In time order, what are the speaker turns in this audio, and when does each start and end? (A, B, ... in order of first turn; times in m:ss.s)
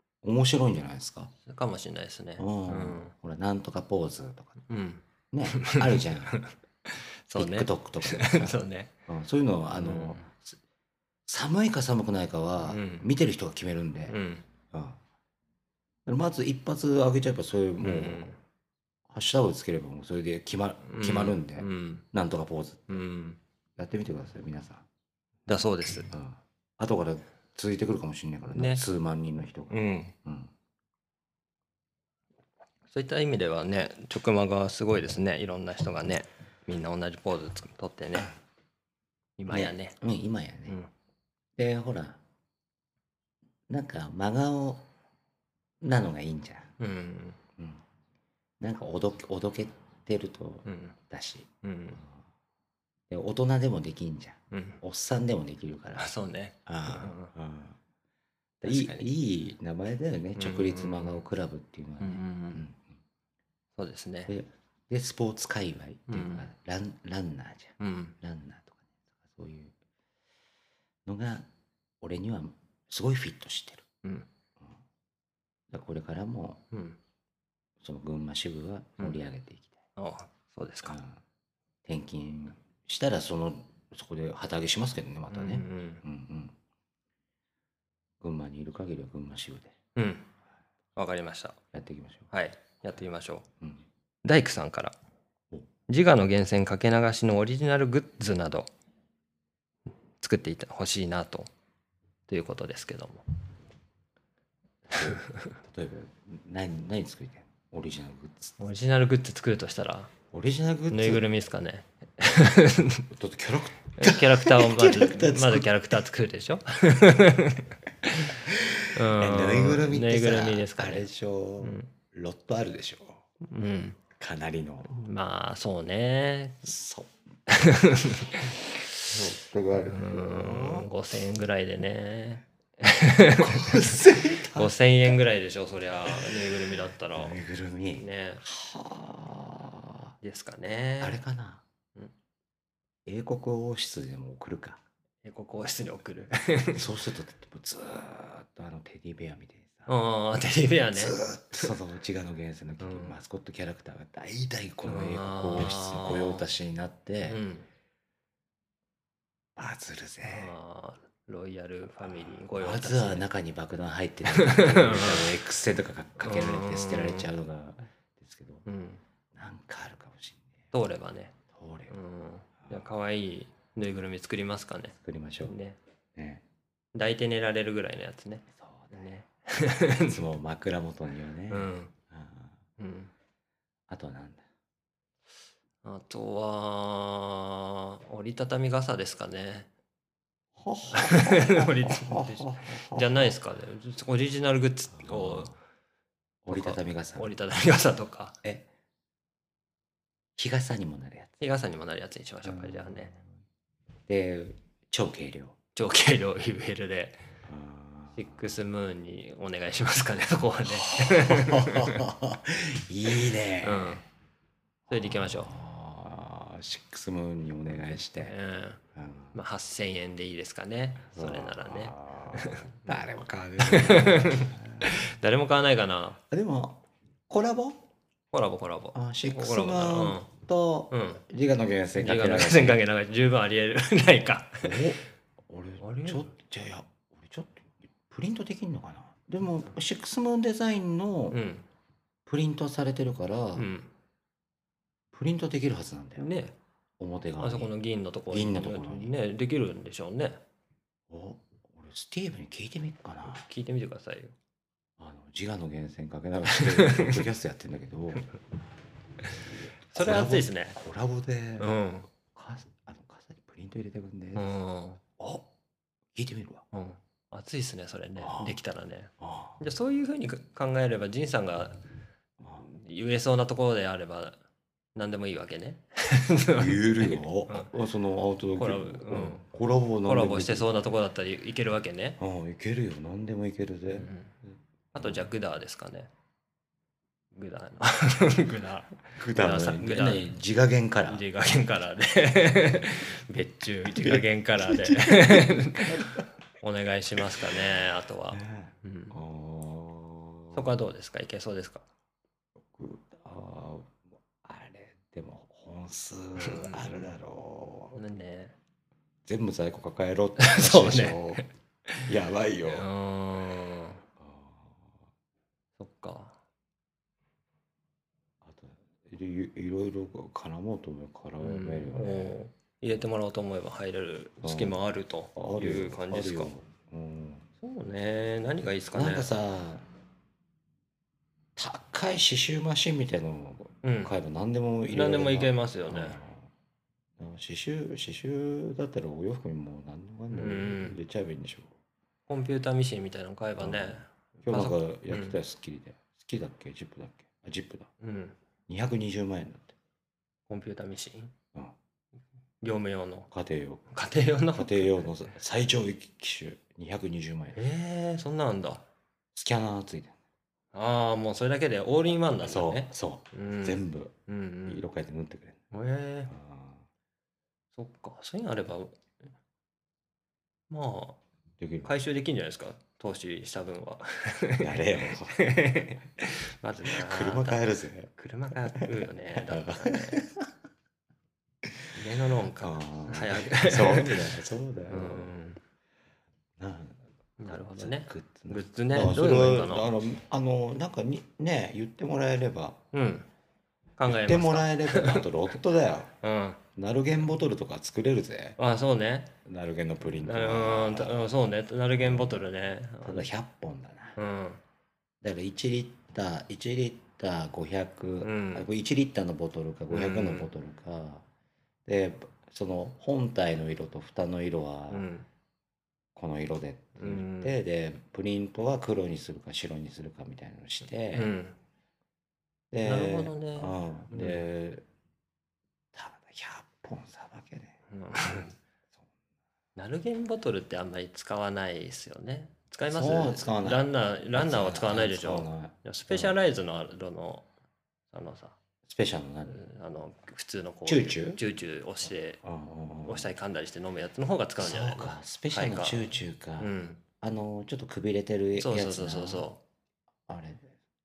0:00.2-0:01.3 A
0:01.4-0:03.1 B
0:02.4-0:04.6 A
0:04.7-0:08.9 B
0:05.3-0:06.4 A
0:07.3-0:10.6 A
0:09.7-0:10.3 B
0:11.2-0:14.2 A
0:12.6-0:13.1 B
0:14.1-0:14.4 B
0:14.7-0:15.0 A
0:16.0-0:18.3 A
0:17.8-0:18.4 B
0:19.1-0:23.0 A
0:20.8-0:22.0 B
0:22.9-0:23.4 B
0:23.8-0:24.8 A
0:25.5-0:26.1 B
0:26.1-0:30.5 A
0:28.5-0:28.8 B
0:29.7-0:30.1 B
0:32.9-0:38.3 B
0:39.4-0:40.0 B
0:39.5-0:40.8 A
0:41.6-0:42.2 A
0:43.7-0:44.9 A
0:45.8-0:46.7 A
0:46.8-0:47.4 B
0:47.6-0:47.8 A
0:48.6-0:51.5 A
0:50.6-0:51.0 B
0:51.6-0:52.0 B
0:53.1-0:56.1 A
0:54.5-0:54.8 B
0:56.0-0:57.3 B
0:56.6-0:57.8 A
0:58.6-0:59.1 B
0:58.6-1:02.9 A
1:00.4-1:01.2 B
1:02.0-1:02.6 B
1:03.8-1:04.3 B
1:04.3-1:09.8 A
1:06.1-1:06.5 B
1:07.8-1:08.1 B
1:11.0-1:11.5 A
1:12.0-1:13.8 A
1:15.7-1:16.6 A
1:16.7-1:17.0 B
1:17.8-1:19.8 A
1:20.0-1:21.0 B
1:20.8-1:21.2 A
1:21.8-1:26.6 A
1:25.3-1:26.0 B
1:28.2-1:29.8 A
1:29.9-1:30.3 B
1:31.0-1:31.6 B
1:31.7-1:32.3 A
1:32.3-1:33.4 B
1:34.2-1:34.9 B
1:35.9-1:38.7 B
1:40.2-1:41.5 B
1:42.3-1:43.2 B
1:44.9-1:48.6 A
1:45.0-1:45.5 B
1:48.6-1:50.1 B
1:50.3-1:51.2 A
1:50.9-1:53.0 B
1:53.1-1:55.7 A
1:54.0-1:58.4 B
1:58.3-2:03.2 A
1:58.9-2:01.1 B
2:01.6-2:01.9 B
2:03.4-2:04.0 B
2:04.2-2:05.0 A
2:04.8-2:06.7 B
2:06.6-2:07.1 A
2:07.5-2:08.6 B
2:09.1-2:10.9 A
2:09.9-2:17.4 B
2:13.4-2:14.7 A
2:16.1-2:16.4 A
2:17.1-2:20.1 A
2:18.0-2:18.4 B
2:20.2-2:21.2 B
2:21.0-2:21.6 A
2:23.0-2:24.8 A
2:25.2-2:26.8 B
2:26.7-2:29.9 A
2:29.9-2:31.7 B
2:30.9-2:37.4 A
2:32.8-2:33.2 B
2:34.9-2:36.4 B
2:37.3-2:37.7 B
2:39.6-2:40.5 A
2:40.2-2:43.2 B
2:42.0-2:48.6 A
2:44.3-2:45.4 B
2:46.2-2:47.3 B
2:48.6-2:49.0 B
2:49.3-2:50.5 A
2:50.7-2:51.4 B
2:51.5-2:52.0 A
2:51.9-2:55.8 B
2:52.6-2:52.9 A
2:55.0-2:55.6 A
2:56.1-2:56.4 A
2:56.9-3:00.2 B
2:58.5-2:59.0 A
3:00.1-3:02.6 A
3:01.5-3:01.9 B
3:02.8-3:03.1 B
3:03.9-3:04.4 A
3:05.8-3:09.7 B
3:10.6-3:13.3 A
3:10.9-3:15.6 B
3:15.0-3:15.5 A
3:16.4-3:17.3 A
3:16.5-3:18.4 B
3:18.4-3:18.7 A
3:20.4-3:21.4 A
3:21.4-3:23.1 B
3:22.4-3:23.2 A
3:24.1-3:25.6 A
3:25.7-3:27.2 B
3:27.4-3:28.5 A
3:28.1-3:32.1 B
3:30.9-3:34.0 A
3:33.6-3:34.0 B
3:34.9-3:38.3 A
3:34.9-3:35.5 B
3:38.2-3:38.8 B
3:38.9-3:39.3 A
3:39.3-3:42.9 B
3:41.1-3:45.1 A
3:43.6-3:46.2 B
3:46.3-3:47.9 A
3:48.3-3:50.3 B
3:48.9-3:52.8 A
3:50.9-3:51.2 B
3:52.0-3:54.8 B
3:54.6-4:01.4 A
3:55.8-3:56.3 B
4:01.3-4:01.6 B
4:02.2-4:03.7 A
4:03.6-4:03.9 B
4:05.1-4:06.2 A
4:06.2-4:06.5 B
4:07.0-4:07.7 A
4:07.4-4:10.4 B
4:08.3-4:09.1 A
4:11.1-4:13.4 A
4:13.2-4:14.3 B
4:15.0-4:18.3 A
4:16.5-4:17.2 B
4:19.9-4:21.7 A
4:19.9-4:20.8 B
4:21.6-4:22.1 B
4:22.2-4:24.5 A
4:24.4-4:25.0 B
4:25.2-4:25.4 A
4:26.1-4:26.6 A
4:26.7-4:31.8 B
4:28.2-4:28.6 A
4:29.2-4:29.6 A
4:32.4-4:32.6 A
4:32.6-4:34.4 B
4:34.9-4:37.7 B
4:36.5-4:40.7 A
4:38.6-4:39.5 B
4:40.0-4:42.2 B
4:42.2-4:45.3 A
4:43.9-4:44.3 B
4:45.0-4:46.1 B
4:47.3-4:50.3 B
4:49.2-4:51.2 A
4:51.1-4:59.2 B
4:53.9-4:56.2 A
4:57.3-4:57.6 A
4:58.3-5:00.7 A
5:00.5-5:01.8 B
5:02.7-5:08.0 A
5:06.4-5:07.0 B
5:07.9-5:08.5 B
5:09.2-5:11.4 A
5:10.4-5:12.1 B
5:12.0-5:12.9 A
5:12.6-5:14.0 B
5:14.2-5:15.0 A
5:15.8-5:16.4 B
5:18.4-5:22.4 A
5:21.4-5:26.5 B
5:24.4-5:24.8 A
5:25.3-5:27.5 A
5:27.6-5:29.3 B
5:28.9-5:29.8 A
5:31.6-5:36.5 A
5:33.8-5:34.1 B
5:34.9-5:36.2 B
5:37.2-5:41.7 A
5:40.3-5:41.0 B
5:42.3-5:45.4 B
5:43.6-5:47.9 A
5:48.0-5:48.4 B
5:48.7-5:49.7 A
5:50.5-5:51.3 B
5:52.6-5:53.3 B
5:53.3-5:53.9 A
5:53.9-5:55.0 B
5:54.5-5:57.6 A
5:57.5-5:58.8 B
5:59.3-6:00.2 A
6:00.7-6:04.8 B
6:02.4-6:04.1 A
6:04.6-6:05.6 A
6:05.7-6:06.3 B
6:06.3-6:06.8 A
6:07.7-6:09.1 B
6:10.7-6:11.2 B
6:11.6-6:11.9 A
6:11.8-6:17.6 B
6:14.6-6:15.9 A
6:16.8-6:18.1 A
6:18.1-6:20.2 B
6:18.6-6:20.4 A
6:21.9-6:24.2 B
6:22.6-6:25.3 A
6:24.9-6:25.6 B
6:26.6-6:32.8 A
6:27.4-6:29.9 B
6:32.9-6:33.3 B
6:34.0-6:35.2 B
6:34.1-6:36.1 A
6:36.2-6:36.6 B
6:36.7-6:38.6 A
6:38.6-6:39.3 B
6:39.4-6:41.3 A
6:40.2-6:43.3 B
6:42.0-6:42.5 A
6:43.0-6:44.2 A
6:44.2-6:44.6 B
6:45.2-6:51.2 A
6:48.2-6:48.6 B
6:49.9-6:50.5 B
6:51.8-6:55.1 A
6:54.9-6:55.3 B
6:56.1-7:01.3 A
6:57.0-6:57.5 B
7:01.1-7:01.6 B
7:02.7-7:04.8 A
7:02.8-7:04.4 B
7:05.9-7:07.7 A
7:07.9-7:08.6 B
7:09.8-7:17.4 B
7:12.9-7:16.4 A
7:18.1-7:18.6 B
7:18.8-7:19.6 A
7:19.5-7:22.4 B
7:20.8-7:21.4 A
7:22.4-7:23.3 A
7:23.0-7:26.1 B
7:24.6-7:29.4 A
7:26.6-7:27.0 B
7:28.6-7:29.6 B
7:30.3-7:30.8 A